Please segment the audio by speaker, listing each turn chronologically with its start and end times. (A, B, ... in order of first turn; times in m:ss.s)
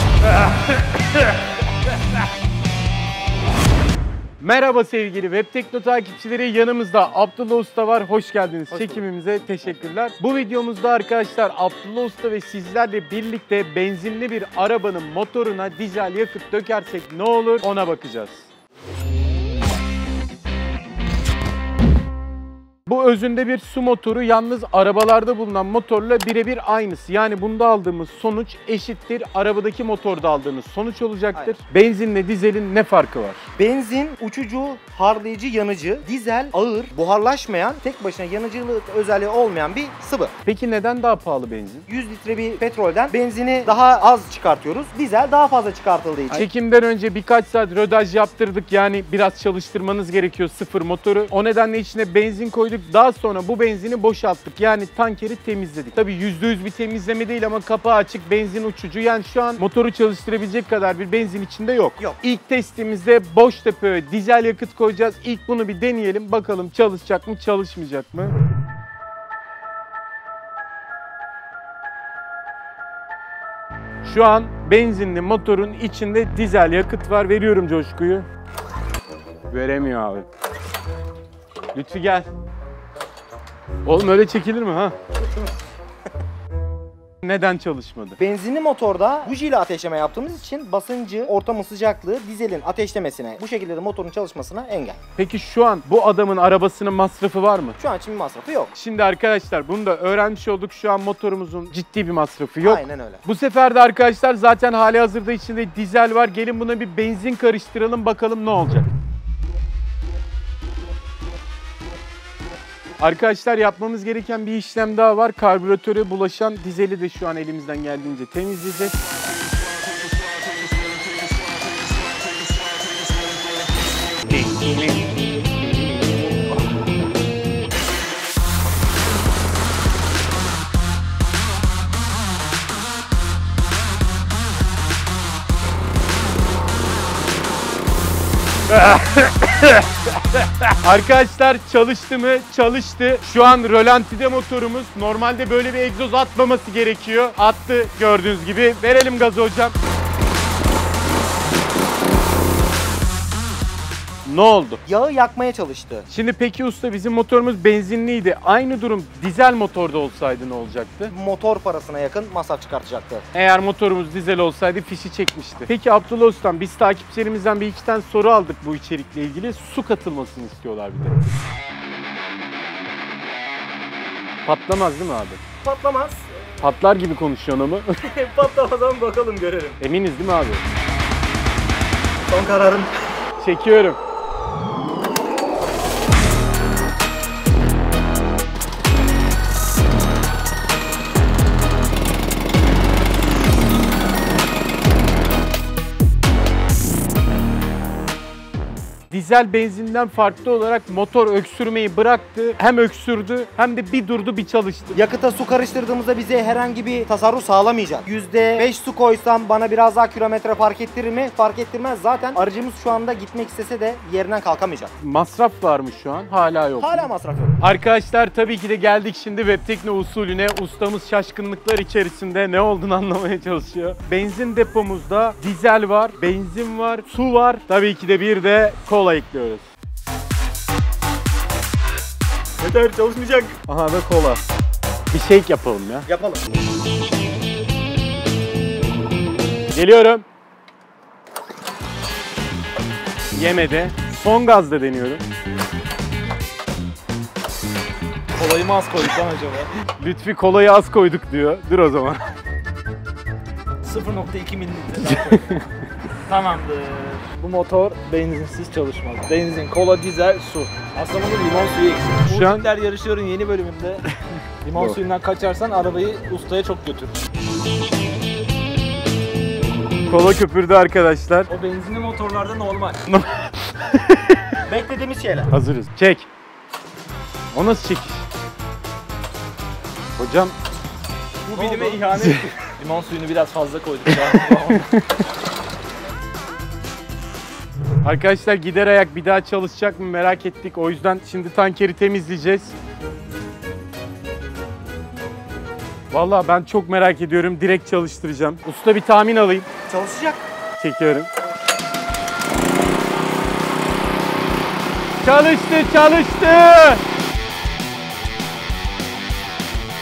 0:04.4-0:18.5 A
0:08.7-0:09.0 B
0:09.6-0:09.9 B
0:22.9-0:33.4 A
0:33.6-0:40.3 B
0:40.4-0:41.9 A
0:41.9-0:46.5 B
0:46.3-1:08.4 A
1:14.0-1:18.3 A
1:19.5-1:20.3 A
1:21.7-1:22.3 A
1:23.8-1:24.9 A
1:27.2-1:28.2 A
1:28.2-1:35.0 B
1:35.2-1:37.8 A
1:37.8-1:38.7 B
1:38.7-1:48.9 A
1:42.6-1:43.2 B
1:53.0-1:59.0 A
2:04.3-2:05.3 A
2:18.7-2:19.7 A
2:20.8-2:29.8 A
2:34.3-2:34.8 A
2:34.9-2:36.1 B
2:36.1-2:41.1 A
2:41.1-2:43.3 B
2:43.3-2:51.2 A
2:54.4-2:55.4 A
2:55.6-2:56.4 B
2:56.6-2:58.0 A
2:58.0-2:59.8 B
2:59.8-3:00.6 A
3:02.2-3:02.9 B
3:03.4-3:04.0 A
3:19.1-3:25.0 A
3:25.0-3:34.9 B
3:35.0-3:49.7 A
3:36.8-3:37.6 B
3:52.6-3:53.6 B
3:53.6-3:54.4 A
3:55.1-3:56.1 A
3:56.1-3:56.4 B
3:59.7-4:00.2 A
4:03.3-4:05.2 A
4:08.3-4:09.7 C
4:10.0-4:12.2 A
4:13.8-4:15.6 C
4:15.3-4:15.6 A
4:16.3-4:24.0 C
4:22.3-4:22.7 A
4:24.6-4:27.2 C
4:30.1-4:31.5 A
4:31.5-4:33.0 C
4:33.1-4:34.6 A
4:34.7-4:35.5 B
4:35.5-4:36.3 A
4:37.5-4:38.2 A
4:40.2-4:40.6 A
4:41.5-4:44.9 C
4:41.5-4:42.0 B
4:44.8-4:45.0 A
4:48.0-4:52.7 A
4:56.1-4:59.7 A
4:59.9-5:00.5 B
5:00.8-5:01.3 A
5:05.2-5:07.0 A